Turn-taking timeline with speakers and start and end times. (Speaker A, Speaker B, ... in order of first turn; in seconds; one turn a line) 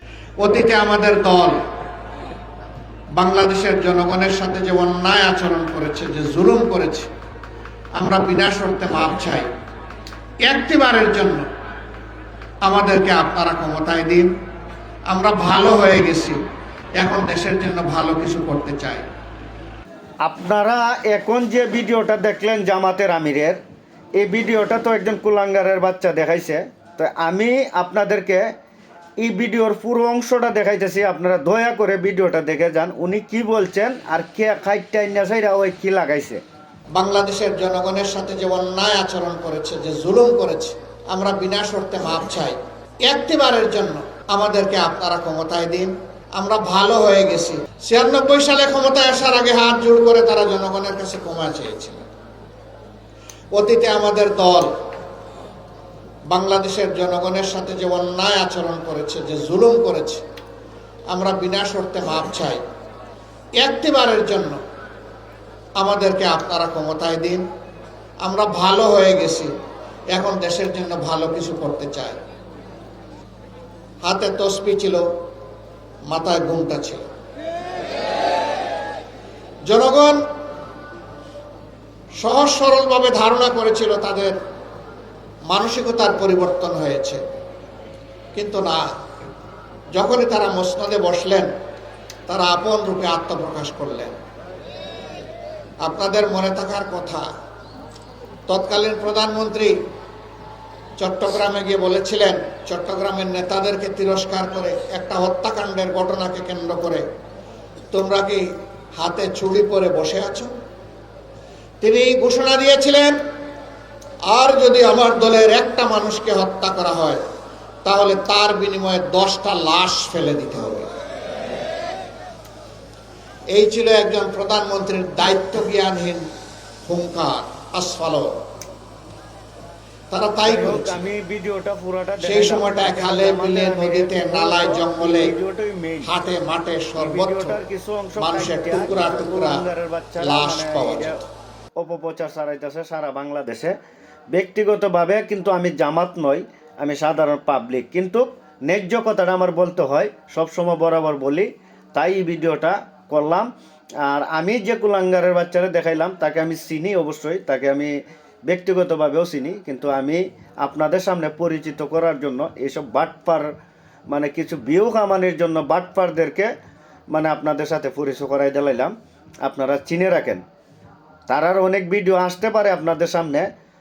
Speaker A: 0.4-1.6
Speaker A: 3.2-7.1
Speaker A: 8.0-9.5
Speaker A: 10.4-11.4
Speaker A: 12.6-14.3
Speaker A: 15.1-16.4
Speaker A: 17.0-19.0
Speaker B: 20.2-23.6
Speaker B: 24.2-28.4
Speaker B: 29.2-36.4
Speaker A: 36.9-52.0
Speaker A: 53.5-54.7
Speaker A: 56.3-60.2
Speaker A: 61.1-62.6
Speaker A: 63.6-64.6
Speaker A: 65.8-67.4
Speaker A: 68.2-69.5
Speaker A: 70.1-72.2
Speaker A: 74.0-75.0
Speaker A: 76.1-77.0
Speaker A: 79.7-80.2
Speaker A: 82.2-84.4
Speaker A: 85.5-87.2
Speaker A: 88.3-88.8
Speaker A: 89.9-91.5
Speaker A: 92.3-94.1
Speaker A: 95.8-97.2
Speaker A: 98.5-99.7
Speaker A: 101.0-107.0
Speaker A: 107.9-110.5
Speaker A: 111.8-113.2
Speaker A: 114.3-117.2
Speaker A: 117.8-120.9
Speaker A: 123.5-126.2
Speaker A: 126.9-128.3
Speaker A: 130.1-131.0
Speaker B: 130.4-136.1
Speaker A: 132.2-135.3
Speaker A: 136.0-137.6
Speaker B: 137.0-141.2
Speaker A: 138.2-139.7
Speaker A: 140.2-141.2
Speaker B: 141.8-143.7
Speaker B: 144.3-153.5
Speaker B: 154.1-157.9
Speaker B: 158.5-163.5
Speaker B: 164.1-166.5
Speaker B: 167.1-168.9
Speaker B: 169.4-170.4
Speaker B: 171.3-173.5